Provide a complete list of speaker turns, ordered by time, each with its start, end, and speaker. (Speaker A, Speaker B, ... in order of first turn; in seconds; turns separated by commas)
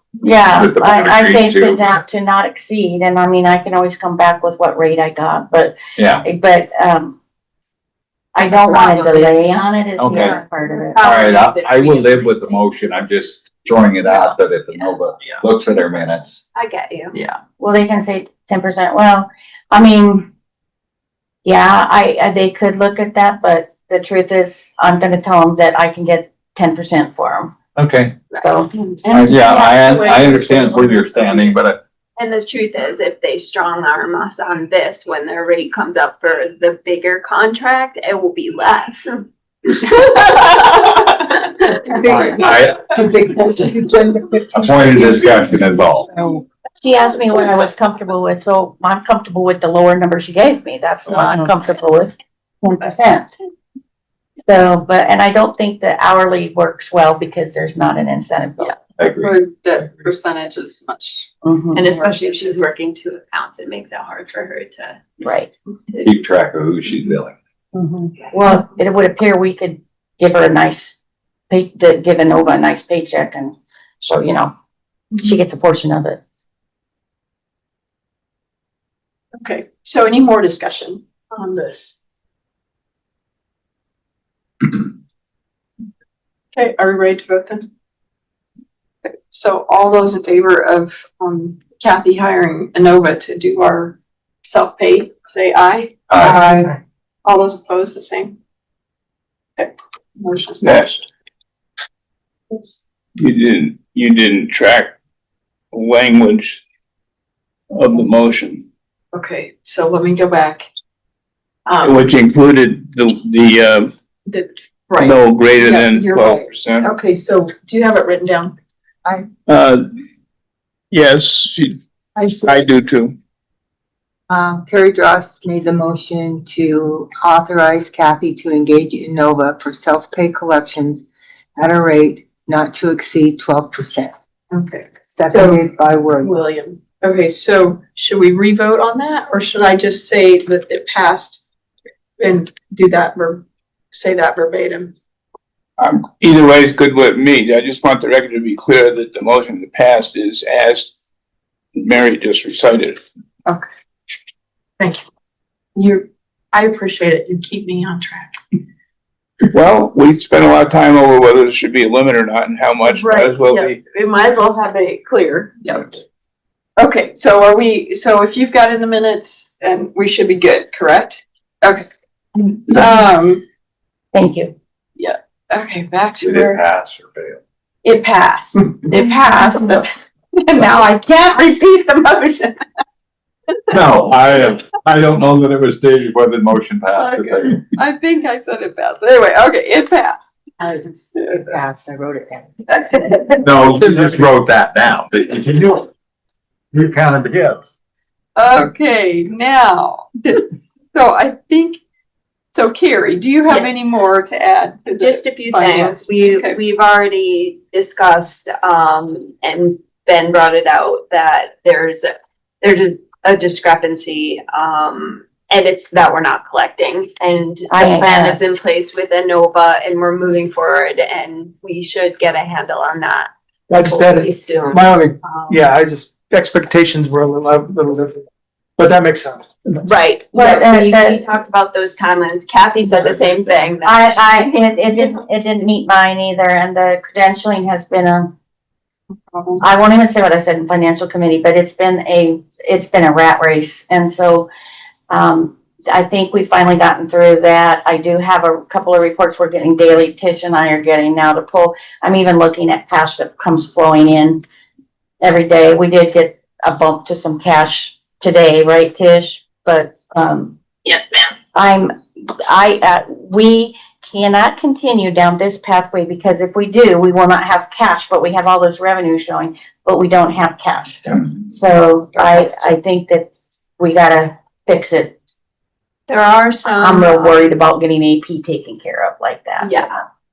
Speaker A: 0.2-7.2, Speaker B: 0.5-2.0, Speaker B: 6.0-6.2, Speaker A: 8.3-11.0, Speaker C: 8.5-13.1, Speaker B: 10.0-10.4, Speaker B: 11.0-16.4, Speaker C: 16.6-17.2, Speaker D: 17.1-17.4, Speaker A: 17.6-20.3, Speaker A: 21.4-27.5, Speaker B: 27.8-28.2, Speaker C: 28.3-29.0, Speaker A: 28.4-28.7, Speaker B: 29.1-31.8, Speaker D: 29.1-31.3, Speaker C: 32.2-42.4, Speaker B: 42.1-42.8, Speaker E: 42.9-45.2, Speaker B: 44.5-46.1, Speaker E: 46.2-46.4, Speaker A: 46.8-53.3, Speaker A: 54.5-58.8, Speaker D: 58.7-61.3, Speaker B: 59.0-60.0, Speaker A: 61.4-62.0, Speaker C: 61.7-65.1, Speaker A: 65.2-65.5, Speaker C: 65.9-66.1, Speaker B: 66.0-67.4, Speaker A: 67.7-71.0, Speaker A: 71.5-74.5, Speaker A: 75.2-76.2, Speaker D: 79.4-82.0, Speaker D: 86.5-87.7, Speaker D: 89.0-96.6, Speaker B: 96.1-96.4, Speaker E: 96.3-96.7, Speaker D: 97.2-98.4, Speaker D: 99.6-100.9, Speaker F: 100.6-101.0, Speaker F: 103.2-104.9, Speaker F: 105.7-106.6, Speaker F: 107.7-108.7, Speaker D: 109.1-110.7, Speaker D: 111.7-112.0, Speaker F: 111.8-113.9, Speaker D: 114.3-118.5, Speaker F: 115.0-116.9, Speaker F: 119.5-119.8, Speaker F: 120.9-123.2, Speaker E: 124.3-131.1, Speaker E: 131.6-134.1, Speaker D: 134.5-141.4, Speaker E: 135.0-136.3, Speaker D: 142.2-144.9, Speaker F: 145.8-150.9, Speaker F: 151.8-153.0, Speaker D: 155.8-158.4, Speaker F: 159.5-163.8, Speaker D: 162.9-165.9, Speaker D: 166.8-173.4, Speaker A: 174.1-174.6, Speaker D: 175.0-176.6, Speaker B: 176.2-177.4, Speaker D: 177.8-182.6, Speaker B: 183.7-187.6, Speaker D: 187.0-190.3, Speaker E: 190.7-192.5, Speaker D: 191.2-191.4, Speaker D: 192.7-193.4, Speaker B: 193.4-195.9, Speaker B: 196.7-197.7, Speaker D: 198.4-201.8, Speaker D: 202.5-206.6, Speaker C: 205.0-225.7, Speaker A: 217.7-218.4, Speaker G: 223.8-224.2, Speaker G: 224.8-228.2, Speaker G: 228.8-229.4, Speaker C: 229.8-234.3, Speaker A: 230.3-231.2, Speaker A: 233.8-238.3, Speaker A: 239.6-244.5, Speaker A: 245.1-254.4, Speaker A: 255.2-260.6, Speaker A: 261.5-275.2, Speaker C: 276.1-277.6, Speaker A: 276.8-279.9, Speaker C: 279.6-280.0